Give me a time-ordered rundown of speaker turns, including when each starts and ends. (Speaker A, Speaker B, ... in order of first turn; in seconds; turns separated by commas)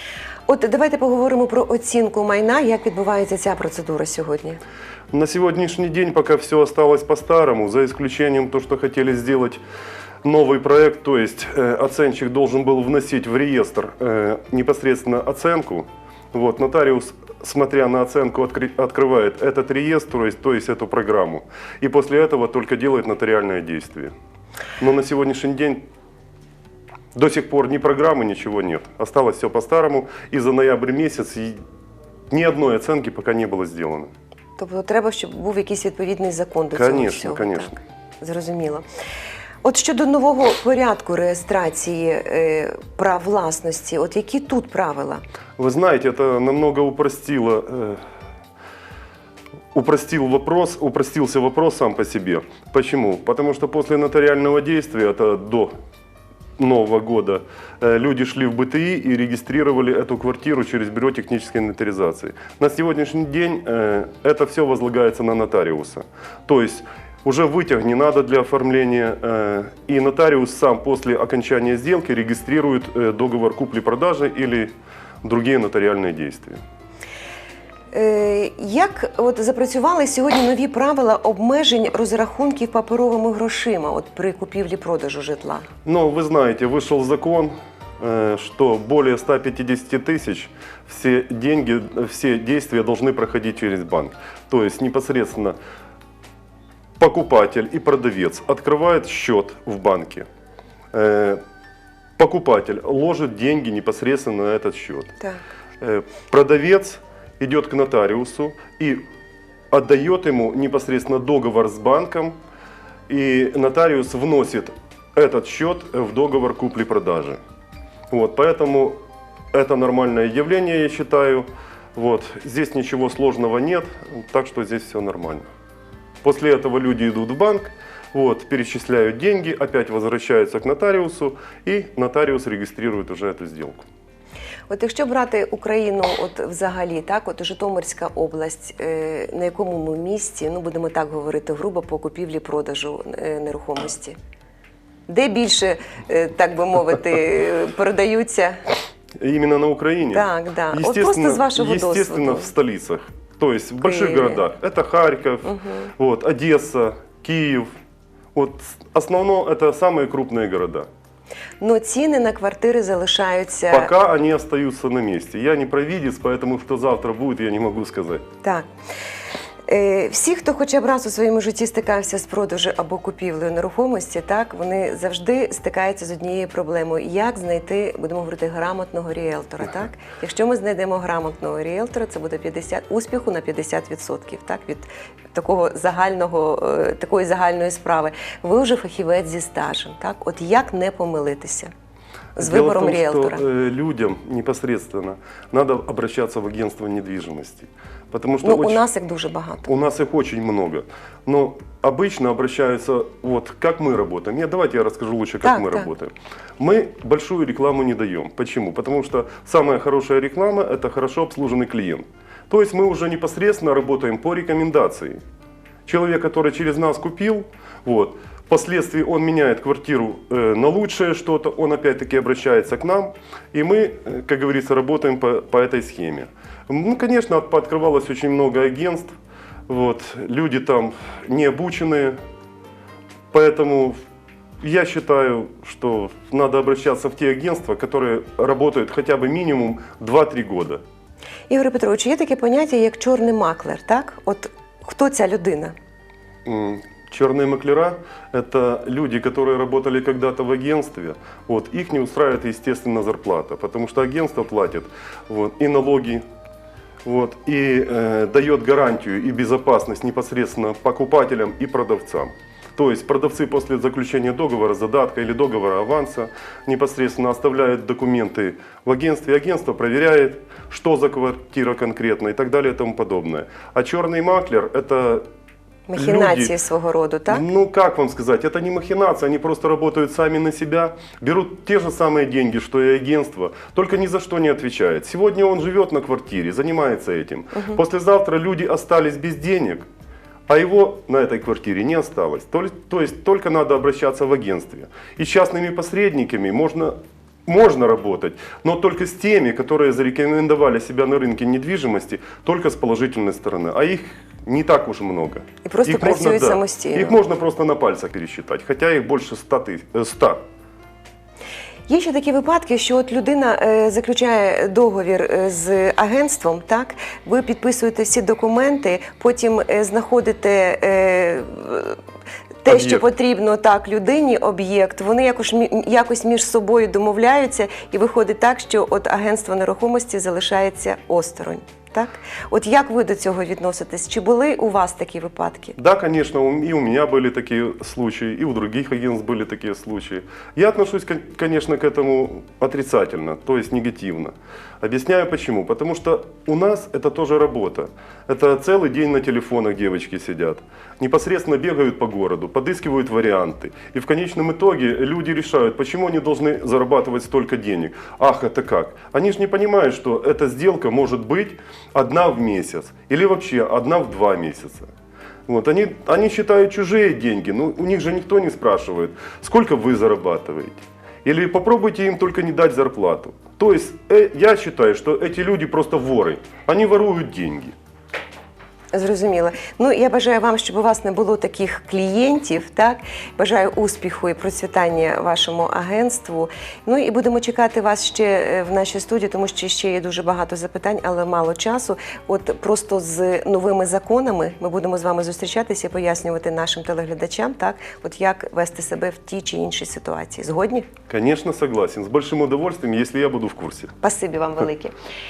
Speaker A: 0.5-4.6, Speaker B: 5.1-9.6, Speaker B: 10.2-24.1, Speaker B: 24.8-25.8, Speaker B: 27.1-31.6, Speaker B: 32.3-34.1, Speaker A: 34.6-38.8, Speaker B: 36.7-37.7, Speaker A: 39.6-45.2, Speaker B: 45.6-48.0, Speaker B: 49.7-55.7, Speaker B: 56.6-76.6, Speaker A: 77.9-85.7, Speaker B: 85.8-95.5, Speaker B: 97.0-100.2, Speaker B: 100.9-101.4, Speaker B: 102.2-105.1, Speaker B: 105.8-109.0, Speaker B: 109.7-112.3, Speaker B: 113.1-117.4, Speaker B: 118.1-119.0, Speaker B: 119.5-125.5, Speaker B: 126.2-133.8, Speaker A: 134.7-144.2, Speaker A: 145.1-148.6, Speaker B: 149.2-157.7, Speaker A: 150.1-152.5, Speaker A: 153.8-154.4, Speaker A: 155.4-155.9, Speaker B: 158.3-160.9, Speaker A: 161.6-163.9, Speaker B: 163.7-168.2, Speaker A: 169.7-191.7, Speaker A: 192.3-193.4, Speaker B: 192.4-198.8, Speaker A: 198.4-199.7, Speaker B: 199.6-215.2, Speaker A: 205.4-205.9, Speaker B: 215.8-229.1, Speaker B: 229.7-232.2, Speaker B: 233.3-234.0, Speaker B: 234.6-240.8, Speaker A: 241.5-245.7, Speaker B: 246.4-256.2, Speaker B: 257.0-275.2, Speaker A: 275.9-277.4, Speaker B: 275.9-276.5, Speaker B: 277.3-289.9, Speaker B: 290.5-310.4, Speaker A: 305.6-307.2, Speaker A: 311.9-322.0, Speaker A: 322.6-335.8, Speaker B: 322.6-323.1, Speaker B: 335.8-364.9, Speaker B: 365.5-377.7, Speaker A: 378.9-400.9, Speaker B: 401.1-403.9, Speaker A: 404.0-404.9